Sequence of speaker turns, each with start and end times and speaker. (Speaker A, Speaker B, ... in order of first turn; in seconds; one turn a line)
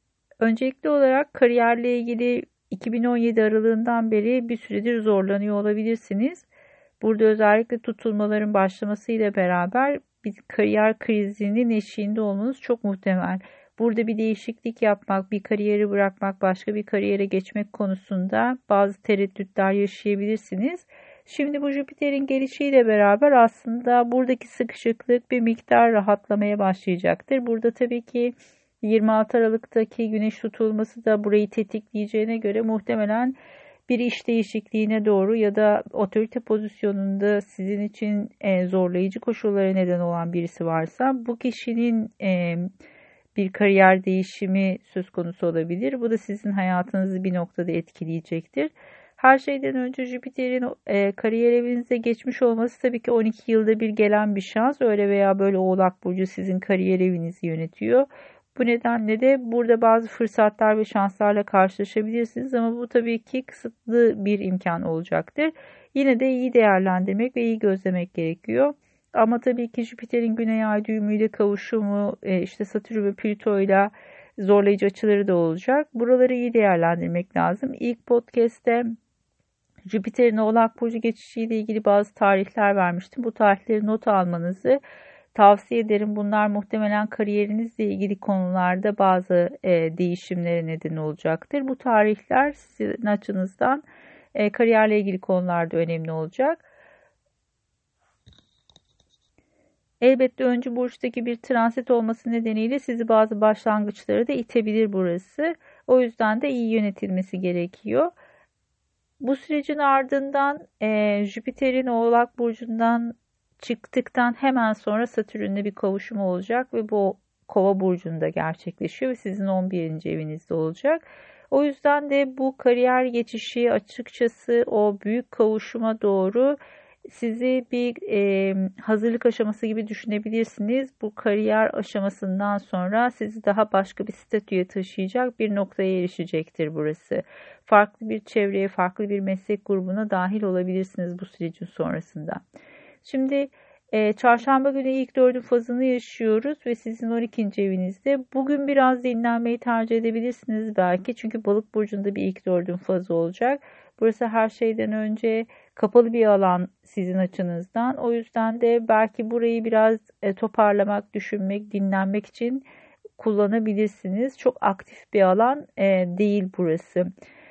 Speaker A: 0.4-6.5
Speaker A: 7.0-33.4
Speaker A: 33.9-42.7
Speaker A: 43.3-78.9
Speaker A: 79.8-84.8
Speaker A: 85.3-93.8
Speaker A: 94.3-96.7
Speaker A: 100.0-108.1
Speaker A: 109.2-142.4
Speaker A: 143.0-162.6
Speaker A: 163.2-167.1